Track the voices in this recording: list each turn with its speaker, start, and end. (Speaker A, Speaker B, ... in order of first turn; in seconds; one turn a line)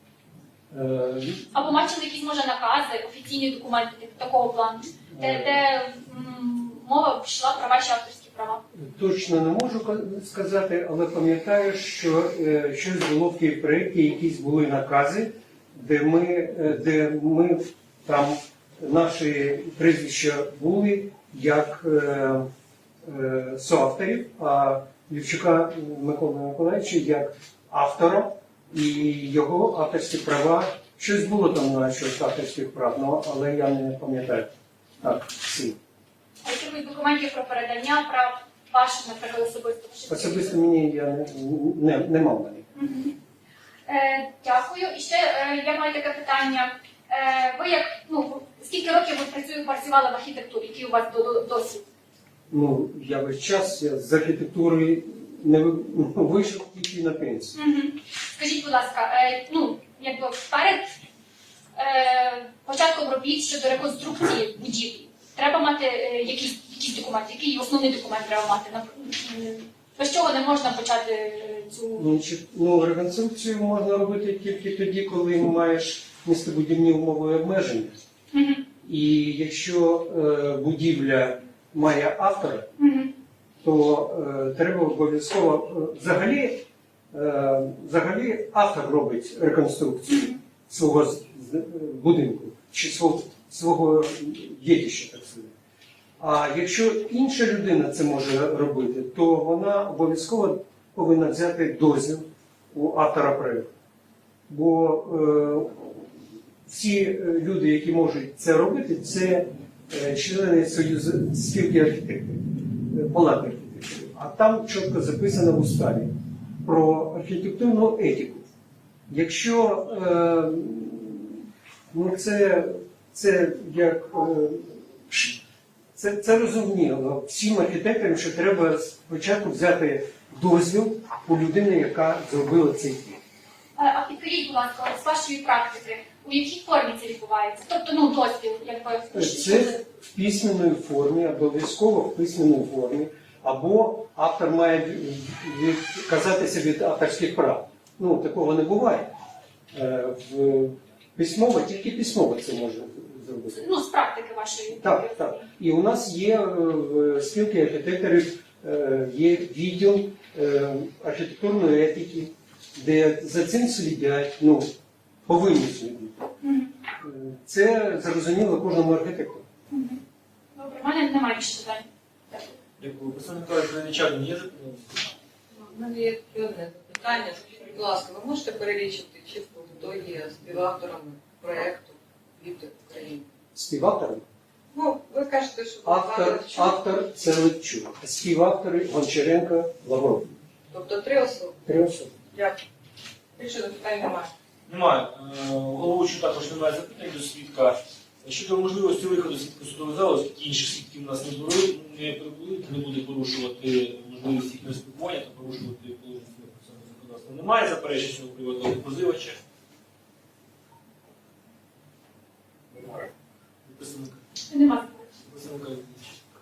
Speaker A: 0.7-1.6
Speaker B: 1.5-8.6
Speaker A: 5.1-5.6
Speaker A: 8.7-22.5
Speaker A: 23.0-35.8
Speaker B: 36.4-40.6
Speaker A: 40.1-42.6
Speaker B: 42.8-43.1
Speaker B: 43.9-51.8
Speaker A: 52.5-57.6
Speaker B: 57.5-60.9
Speaker B: 61.8-72.1
Speaker A: 72.0-78.0
Speaker B: 78.3-78.6
Speaker A: 78.8-82.7
Speaker B: 82.8-83.1
Speaker A: 83.6-95.5
Speaker A: 96.2-103.7
Speaker A: 104.5-106.1
Speaker A: 106.7-116.1
Speaker A: 116.7-118.5
Speaker A: 119.1-125.4
Speaker A: 126.0-133.2
Speaker B: 133.8-139.8
Speaker A: 139.1-149.1
Speaker A: 149.7-153.7
Speaker B: 153.5-155.4
Speaker A: 154.8-164.7
Speaker A: 165.3-166.3
Speaker B: 166.4-166.7
Speaker A: 167.0-169.4
Speaker B: 169.7-170.0
Speaker B: 170.5-172.6
Speaker C: 172.8-175.0
Speaker D: 175.5-183.3
Speaker A: 183.6-184.3
Speaker D: 184.7-186.7
Speaker A: 185.8-190.3
Speaker D: 190.7-191.6
Speaker A: 191.7-192.1
Speaker D: 192.3-192.6
Speaker D: 193.4-194.3
Speaker C: 194.7-209.4
Speaker C: 213.7-214.2
Speaker B: 214.5-215.0
Speaker C: 215.2-216.2